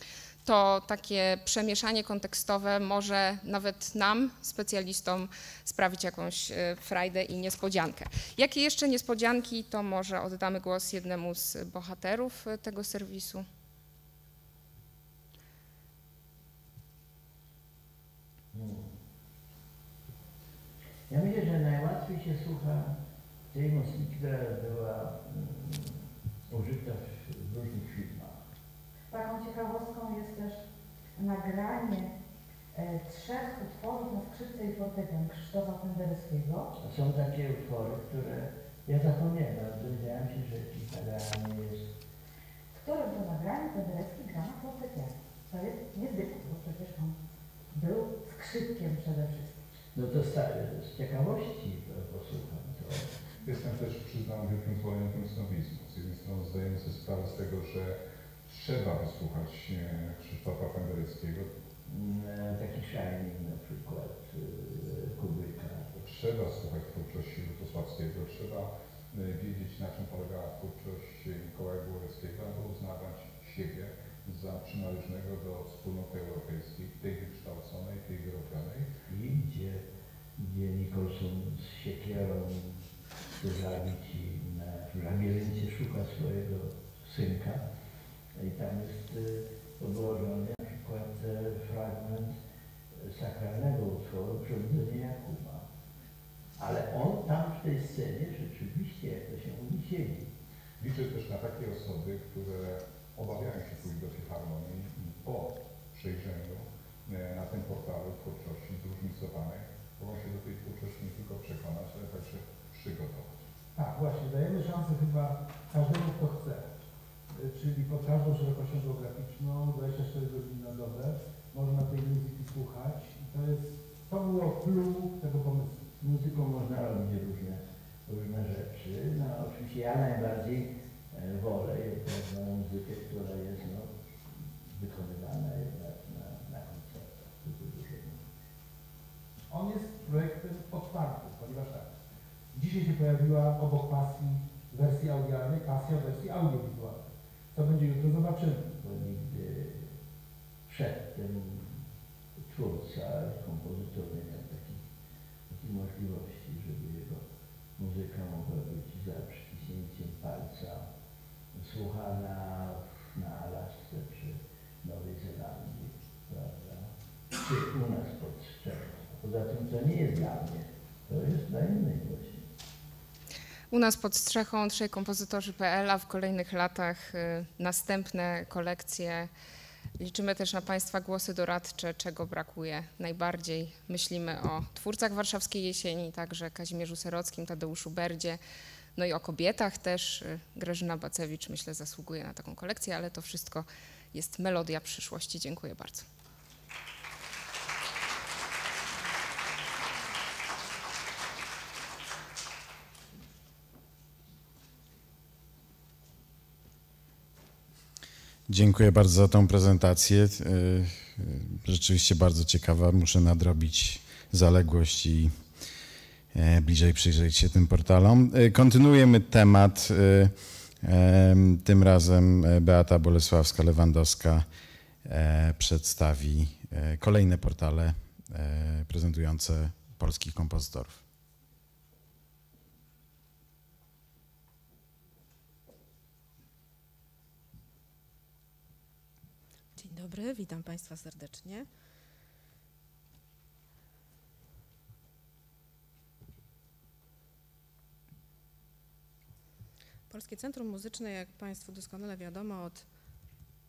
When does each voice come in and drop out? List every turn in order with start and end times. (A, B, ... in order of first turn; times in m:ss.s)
0:00.4-0:13.4 A
0:18.5-0:19.0 B
0:21.1-0:23.0 B
0:23.5-0:28.4 B
0:29.1-0:30.6 C
0:31.2-0:32.1 C
0:32.7-0:36.7 C
0:36.8-0:41.9 B
0:42.7-0:47.2 C
0:47.7-0:49.7 C
0:49.9-0:53.1 B
0:53.4-1:01.5 D
1:01.8-1:05.9 B
1:05.9-1:18.9 D
1:19.1-1:27.6 B
1:28.3-1:32.4 B
1:32.9-1:35.7 B
1:36.6-1:40.3 B
1:40.8-1:53.4 D
1:53.7-1:56.7 E
1:57.3-2:05.9 E
2:05.9-2:18.3 B
2:19.5-2:21.9 E
2:22.5-2:27.0 E
2:27.5-2:28.7 E
2:28.6-2:29.9 B
2:30.6-2:31.8 B
2:32.4-2:34.8 B
2:35.5-2:37.2 B
2:37.8-2:40.9 B
2:41.5-2:52.5 B
2:53.7-2:59.3 A
3:00.0-3:08.4 A
3:09.0-3:16.1 A
3:28.5-3:35.3 F
3:36.3-3:44.4 F
3:45.0-3:51.0 F
3:59.8-4:01.7 G
4:10.1-4:12.8 G